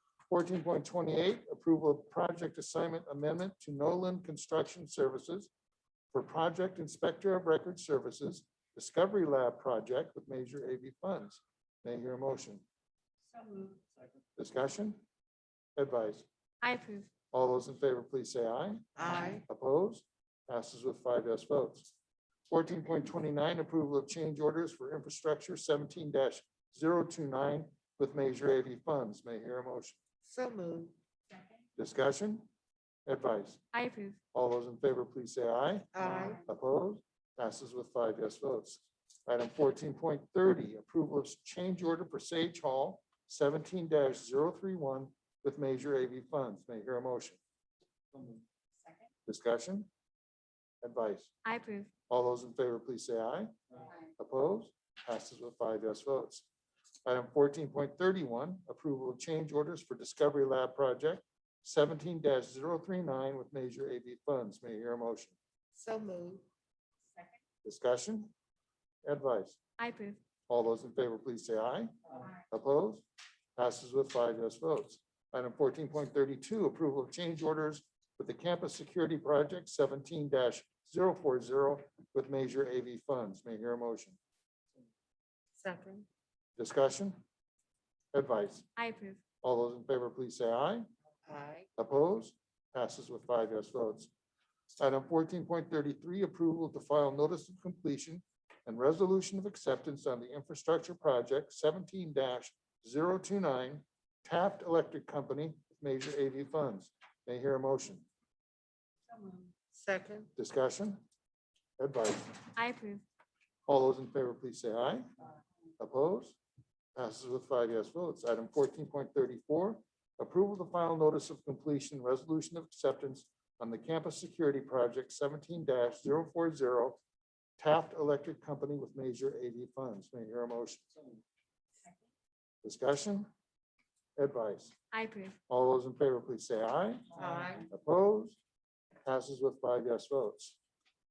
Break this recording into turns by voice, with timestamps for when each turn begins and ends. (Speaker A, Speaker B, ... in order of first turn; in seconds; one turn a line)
Speaker A: 0.3-5.5
Speaker A: 6.1-12.6
Speaker A: 14.4-15.0
Speaker A: 15.8-16.3
Speaker B: 16.6-17.1
Speaker A: 17.3-18.9
Speaker C: 19.0-19.4
Speaker A: 19.5-21.9
Speaker A: 22.5-30.0
Speaker C: 30.2-30.9
Speaker A: 31.8-32.5
Speaker A: 33.1-33.6
Speaker B: 33.7-34.2
Speaker A: 34.3-47.4
Speaker C: 35.9-36.4
Speaker A: 49.3-49.9
Speaker A: 50.8-51.3
Speaker B: 51.5-51.9
Speaker A: 52.1-53.5
Speaker A: 54.2-56.5
Speaker A: 57.1-65.4
Speaker C: 65.7-66.5
Speaker A: 67.6-68.3
Speaker A: 69.0-69.6
Speaker B: 69.8-70.2
Speaker A: 70.5-71.9
Speaker A: 72.5-73.0
Speaker A: 73.6-84.2
Speaker C: 85.6-86.1
Speaker A: 86.6-87.2
Speaker A: 88.1-88.7
Speaker B: 88.8-89.2
Speaker A: 89.4-90.9
Speaker C: 91.3-91.7
Speaker A: 91.8-94.1
Speaker A: 94.8-108.1
Speaker C: 109.7-110.3
Speaker A: 110.4-111.0
Speaker A: 111.8-112.5
Speaker B: 112.6-113.0
Speaker A: 113.7-115.1
Speaker A: 115.8-116.4
Speaker A: 117.0-127.0
Speaker A: 127.6-130.9
Speaker A: 132.6-133.3
Speaker A: 134.2-134.8
Speaker B: 134.9-135.4
Speaker A: 135.5-137.1
Speaker C: 137.2-137.7
Speaker A: 137.7-138.4
Speaker A: 139.1-140.6